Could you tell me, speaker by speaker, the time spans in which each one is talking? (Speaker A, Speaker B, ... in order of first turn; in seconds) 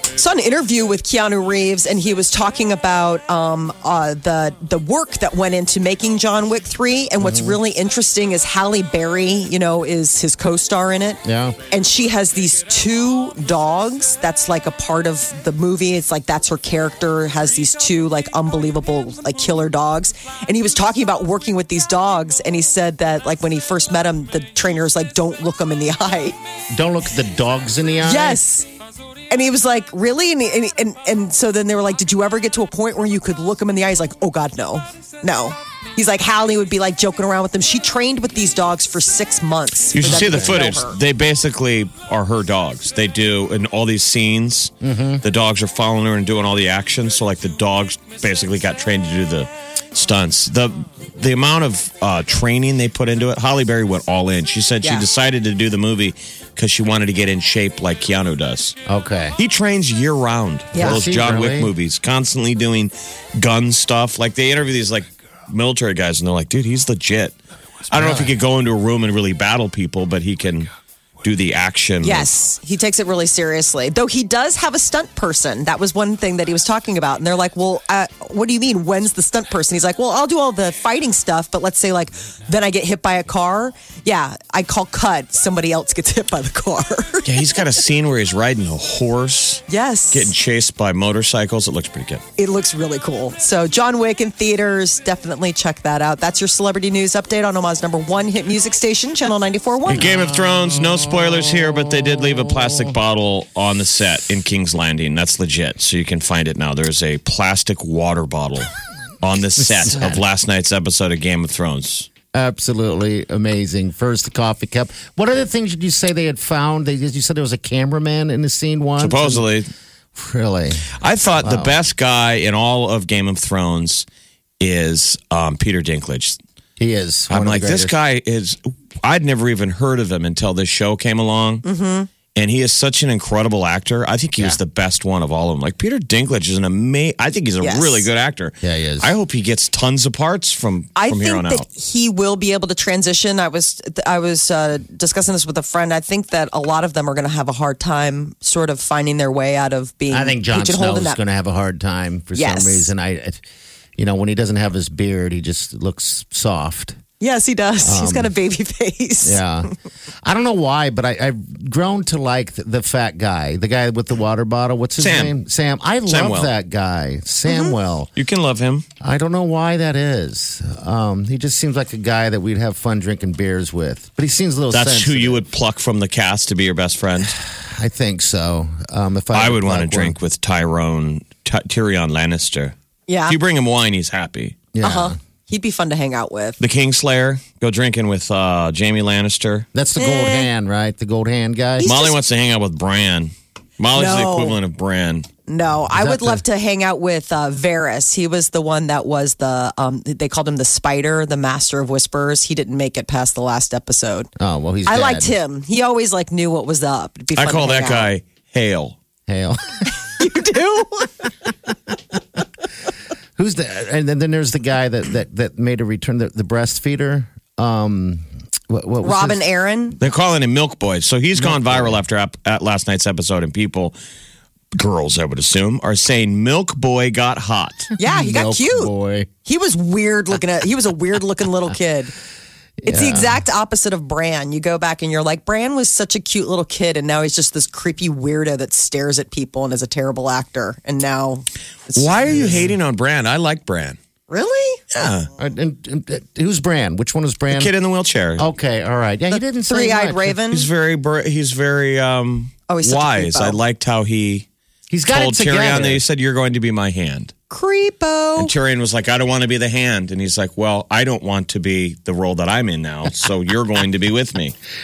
Speaker A: 0.2-26.4, 28.0-28.7, 29.3-41.0, 60.7-61.0, 72.0-87.6, 89.7-90.3, 92.4-100.1, 131.6-132.1, 137.6-138.1, 141.0-151.2, 152.4-152.9, 157.2-159.4, 167.5-167.8, 183.1-183.4, 184.8-186.6, 190.0-190.5, 191.8-192.2, 193.9-194.6, 195.5-204.3, 204.9-208.1, 209.9-211.3, 219.0-220.0, 228.0-228.9, 229.4-232.1, 232.9-242.2, 244.3-244.8, 249.7-250.7, 252.7-253.6, 257.5-258.5
Speaker B: 7.2-7.6, 11.2-11.6, 26.7-28.4, 44.8-45.2, 58.9-59.4, 60.8-61.7, 67.9-68.3, 100.0-102.5, 109.9-110.2, 112.3-119.5, 120.2-121.8, 126.8-128.0, 138.6-139.1, 150.1-153.4, 154.0-157.0, 157.8-158.3, 159.2-159.7, 160.2-168.1, 169.0-175.4, 177.3-180.2, 184.7-185.2, 189.7-191.9, 195.9-196.4, 204.4-205.4, 209.3-209.9, 213.4-219.4, 221.4-222.0, 228.0-229.3, 232.8-233.4, 245.4-247.7, 248.4-250.4, 254.9-256.0
Speaker C: 39.9-58.8, 59.4-67.4, 67.9-70.7, 71.2-72.3, 87.2-92.2, 99.9-108.7, 109.2-112.1, 119.0-119.7, 121.0-124.0, 124.6-126.4, 127.3-131.6, 132.3-141.7, 165.0-165.3, 166.1-166.5, 168.2-168.8, 174.7-177.4, 179.3-182.8, 183.3-184.6, 186.6-189.7, 191.8-195.3, 207.4-209.0, 220.0-223.9, 224.7-227.9, 241.9-244.0, 244.9-245.3, 247.5-248.4, 250.5-254.5, 255.1-257.3, 258.4-264.6